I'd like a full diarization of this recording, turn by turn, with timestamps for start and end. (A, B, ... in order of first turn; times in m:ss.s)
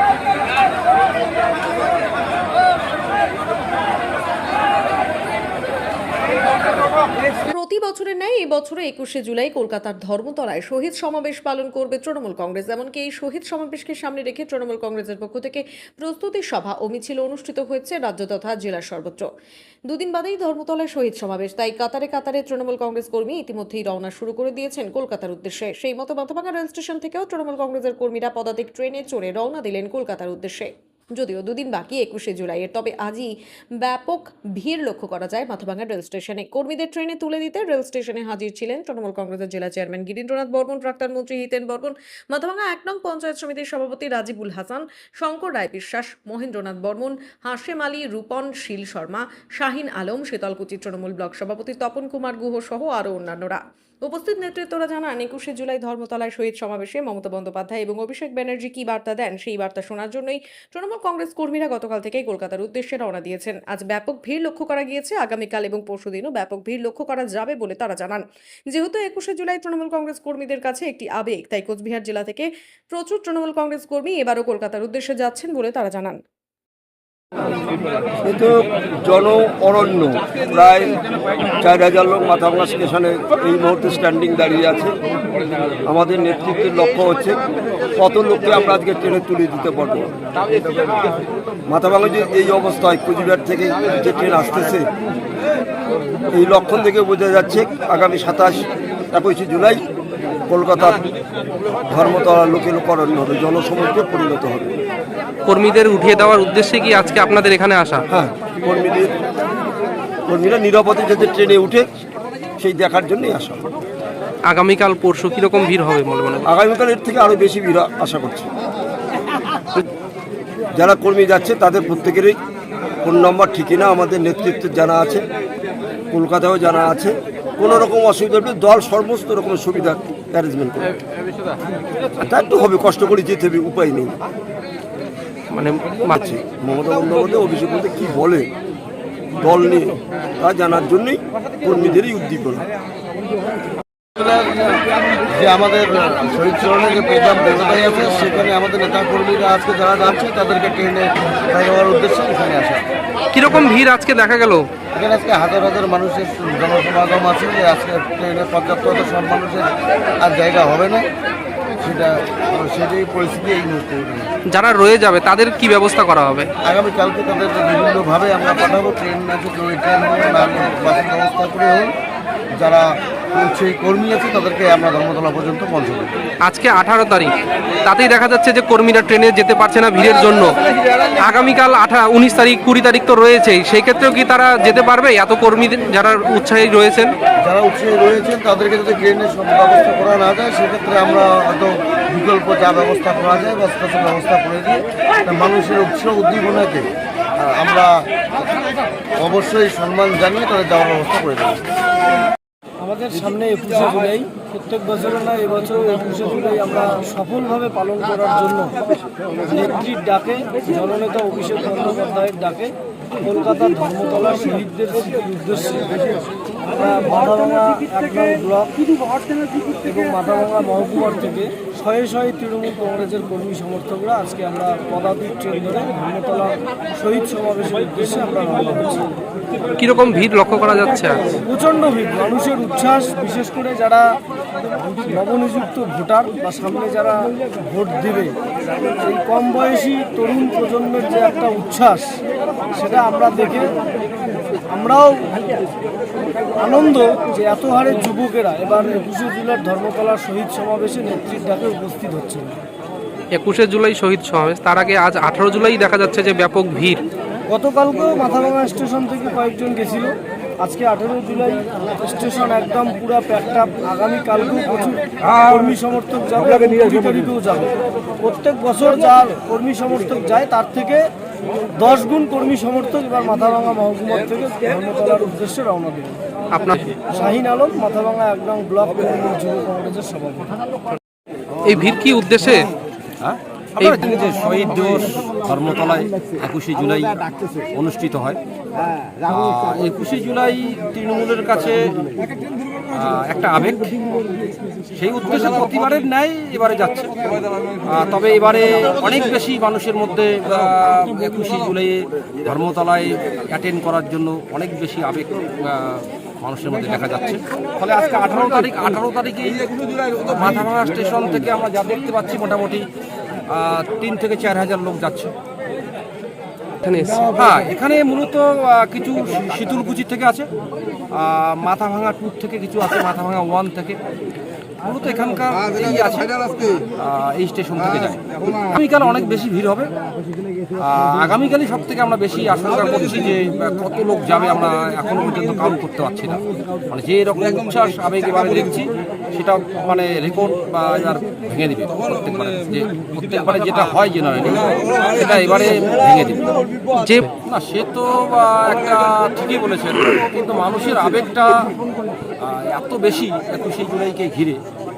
0:07.4-0:19.3 A
0:19.9-1:16.2 A
1:18.2-1:20.9 B
1:21.6-1:24.9 B
1:25.8-1:30.1 B
1:31.7-1:34.9 B
1:36.3-1:39.8 B
1:40.5-1:41.0 B
1:41.8-1:44.7 B
1:45.4-1:48.0 C
1:48.1-1:49.1 B
1:50.3-1:51.8 B
1:52.6-1:53.6 B
1:54.4-1:56.5 C
1:56.5-1:58.4 B
2:00.8-2:02.4 B
2:03.0-2:05.2 B
2:06.1-2:10.8 B
2:12.2-2:14.2 B
2:15.5-2:16.4 C
2:16.2-2:18.5 B
2:19.4-2:22.6 B
2:24.2-2:32.8 D
2:33.3-2:34.7 C
2:34.9-2:41.1 D
2:41.8-2:44.3 D
2:44.5-2:46.5 C
2:46.6-2:51.9 D
2:52.5-2:56.1 D
2:56.4-2:57.3 C
2:57.8-3:07.1 C
3:07.4-3:18.0 D
3:19.2-3:21.6 D
3:22.8-3:28.8 E
3:29.6-3:36.0 E
3:36.7-3:38.9 E
3:39.8-3:49.1 E
3:49.8-3:51.4 C
3:51.4-3:54.2 E
3:55.0-3:58.3 E
3:59.0-4:03.8 E
4:04.7-4:05.4 E
4:06.6-4:12.6 E
4:13.3-4:17.0 C
4:17.5-4:31.0 E
4:31.7-4:36.2 E
4:36.5-4:37.0 C
4:37.1-4:40.5 E
4:41.6-4:42.7 C
4:43.2-4:48.4 F
4:43.8-4:44.0 C
4:49.3-4:52.2 F
4:52.9-4:53.9 F
4:54.9-5:12.9 F
5:13.5-5:15.3 F
5:16.8-5:17.3 C
5:17.3-5:20.5 F
5:21.1-5:24.0 F
5:24.8-5:29.9 F
5:30.8-5:46.6 F
5:46.9-5:47.3 C
5:47.4-5:51.7 F
5:52.4-5:54.6 F